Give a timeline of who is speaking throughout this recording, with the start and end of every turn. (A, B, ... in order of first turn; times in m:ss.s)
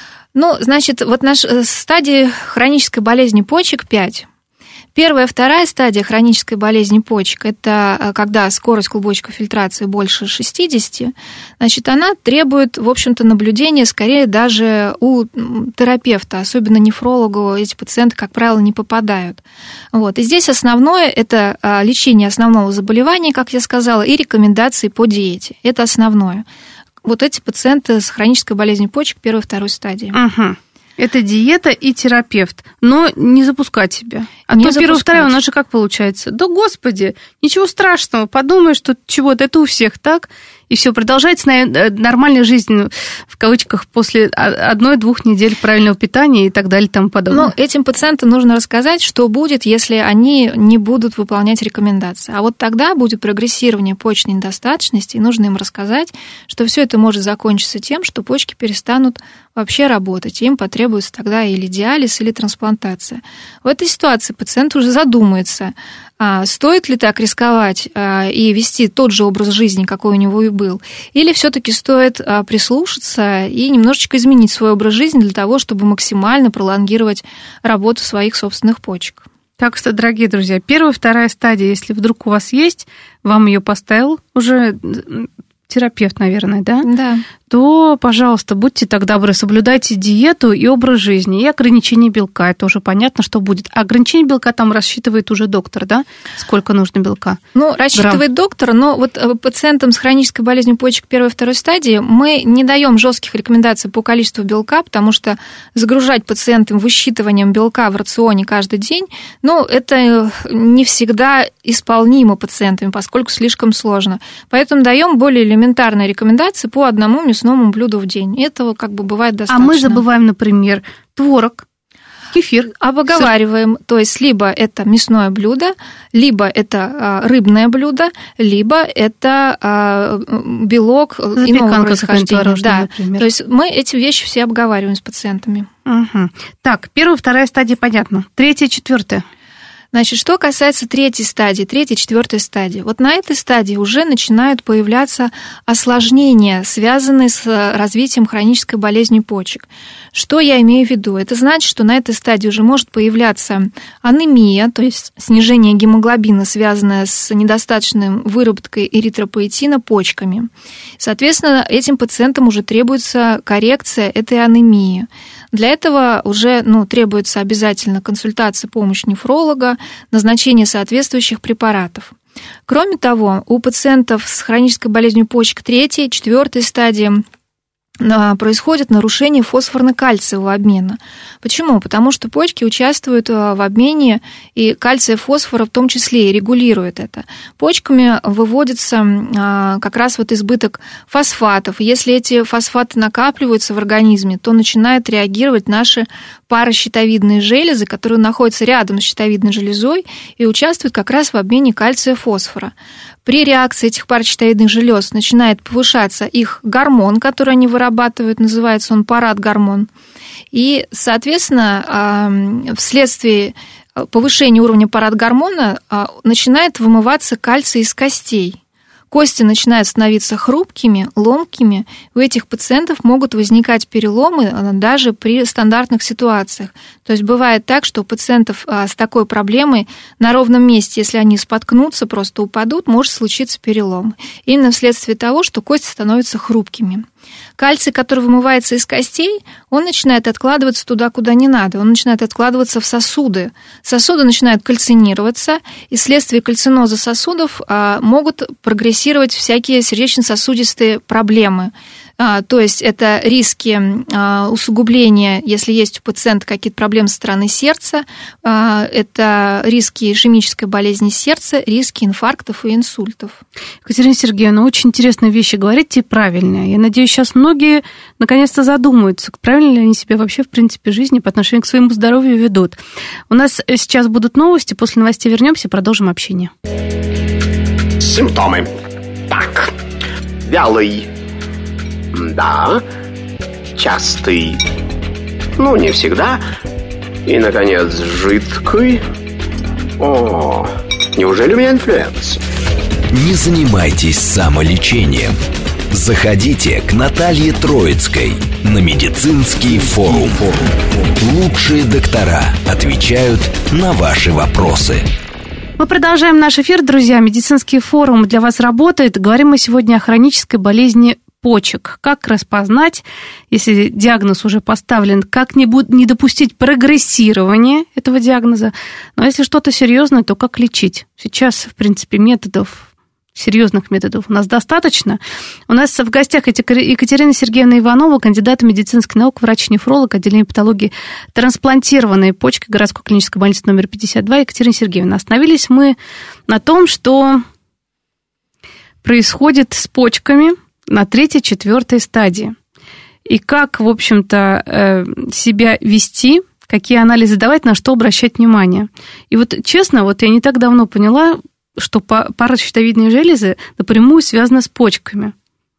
0:00.4-0:04.3 A
0:05.0-0:26.4 A
0:27.0-0:30.2 A
0:30.1-0:47.5 B
0:34.5-0:35.3 A
0:47.3-1:19.2 A
1:19.6-1:26.9 B
1:26.8-1:27.3 A
1:27.5-1:37.4 B
1:37.6-2:00.0 A
1:38.0-1:38.2 B
1:59.5-2:01.6 B
2:02.3-2:03.3 B
2:02.8-2:15.7 A
2:11.4-2:13.3 B
2:15.9-2:19.2 B
2:19.9-2:52.1 A
2:52.7-2:57.2 A
2:58.0-3:22.7 A
3:23.2-3:29.9 A
3:30.5-3:38.6 A
3:39.1-3:57.1 A
3:57.6-4:23.4 A
4:23.8-4:32.8 B
4:33.3-4:36.5 B
4:38.0-4:38.7 C
4:39.3-4:39.8 C
4:40.4-4:41.1 C
4:42.1-4:42.8 C
4:43.8-4:44.6 C
4:45.6-4:46.4 C
4:47.3-4:49.0 C
4:50.0-4:52.4 C
4:53.1-4:55.4 D
4:55.9-5:05.1 D
5:05.8-5:36.0 B
5:36.5-5:37.4 B
5:39.0-5:42.6 B
5:43.3-5:55.3 B